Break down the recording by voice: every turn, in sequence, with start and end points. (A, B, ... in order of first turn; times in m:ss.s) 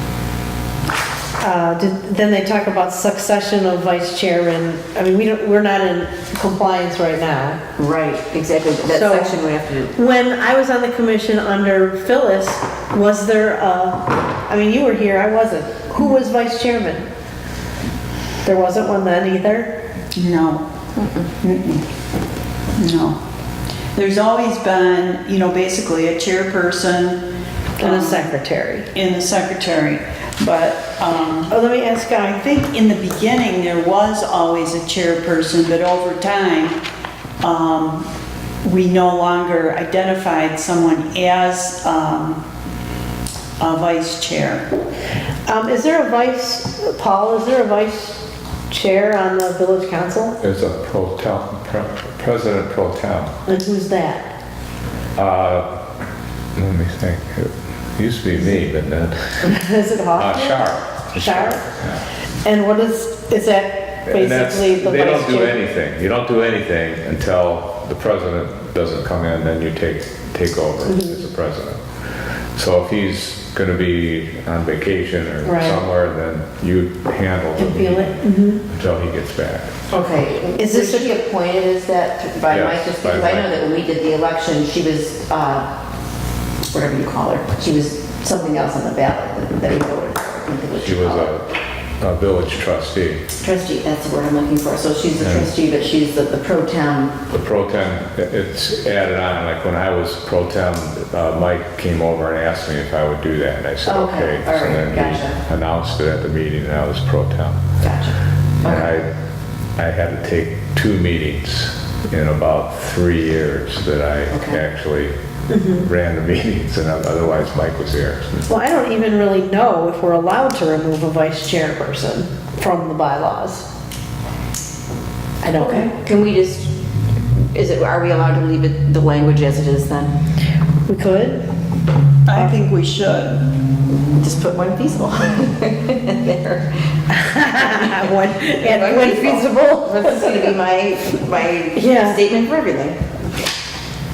0:01.4-0:07.6 A
0:07.8-0:09.9 B
0:08.9-0:09.4 A
0:09.9-0:17.1 A
0:18.4-0:19.7 A
0:20.1-0:20.6 C
0:21.4-0:21.9 C
0:22.8-0:23.2 C
0:23.9-0:27.2 C
0:27.8-0:28.3 C
0:27.8-0:28.9 A
0:28.9-0:31.5 C
0:31.5-0:32.4 A
0:32.3-0:36.8 C
0:37.4-0:38.1 C
0:38.6-0:42.4 C
0:43.6-0:44.6 C
0:45.5-0:50.4 A
0:50.4-0:53.3 D
0:53.5-0:54.3 A
0:55.2-0:55.6 D
0:56.6-0:59.6 D
0:59.4-1:00.6 A
1:00.2-1:02.0 D
1:01.1-1:01.6 A
1:02.4-1:05.6 A
1:04.0-1:11.8 D
1:10.8-1:11.2 A
1:12.5-1:19.7 D
1:15.4-1:15.8 A
1:17.6-1:18.6 A
1:19.9-1:25.7 B
1:20.6-1:21.1 A
1:22.5-1:23.5 D
1:26.7-1:31.3 B
1:30.8-1:31.5 D
1:32.0-1:33.2 D
1:33.4-1:37.1 B
1:35.2-1:35.5 D
1:37.3-1:47.6 D
1:43.8-1:45.4 B
1:47.8-1:48.9 B
1:48.6-1:49.1 D
1:49.8-1:58.5 D
1:54.3-1:54.6 B
1:55.5-1:55.8 A
1:58.5-2:03.6 A
2:05.4-2:05.9 A
2:05.5-2:06.7 B
2:07.5-2:10.1 B
2:10.9-2:11.4 A
2:12.2-2:13.4 C
2:12.3-2:12.6 A
2:14.2-2:16.7 B
2:17.1-2:20.5 A
2:17.5-2:23.0 B
2:21.7-2:22.2 A